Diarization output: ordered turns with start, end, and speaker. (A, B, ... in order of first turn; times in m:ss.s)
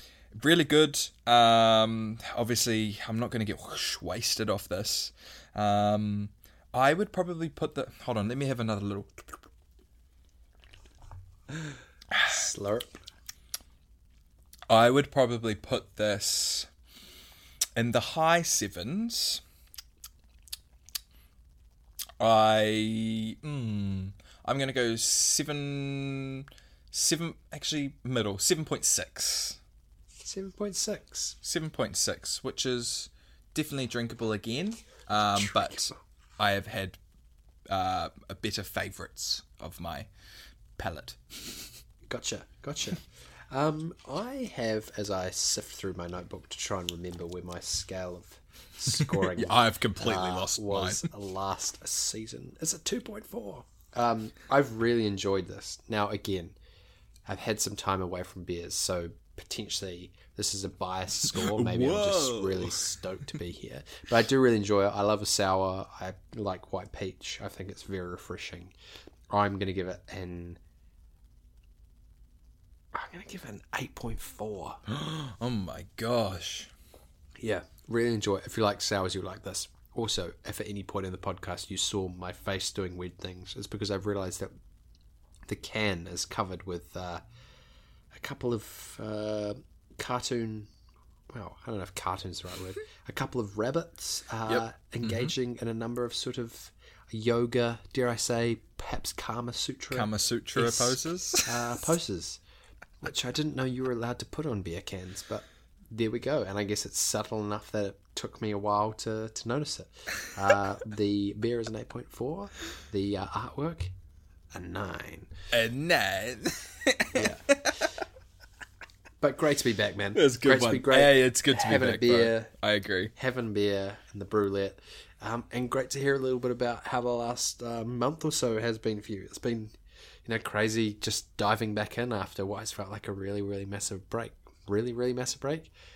0:00.3-0:09.2 A
0:12.1-0:12.4 A
0:12.2-0:13.0 B
0:14.7-0:16.7 A
0:17.8-0:19.4 A
0:22.2-0:29.6 A
0:30.2-0:31.4 B
0:31.4-0:37.0 A
0:35.4-0:35.9 B
0:37.7-0:40.1 A
0:40.8-0:41.7 A
0:42.1-0:56.6 B
0:49.0-0:51.1 A
0:57.3-1:08.7 B
1:01.2-1:02.9 A
1:09.3-1:10.6 B
1:12.9-1:14.8 B
1:14.9-1:16.7 A
1:17.4-1:24.5 B
1:25.5-1:27.2 B
1:28.1-1:30.7 B
1:31.3-1:42.4 B
1:34.5-1:35.3 A
1:39.9-1:41.8 A
1:43.0-1:53.9 B
1:54.5-1:55.3 B
1:55.5-1:57.9 A
1:57.1-1:57.7 B
1:59.2-2:02.5 B
2:00.2-2:03.1 A
2:03.2-2:09.7 B
2:10.3-2:15.7 B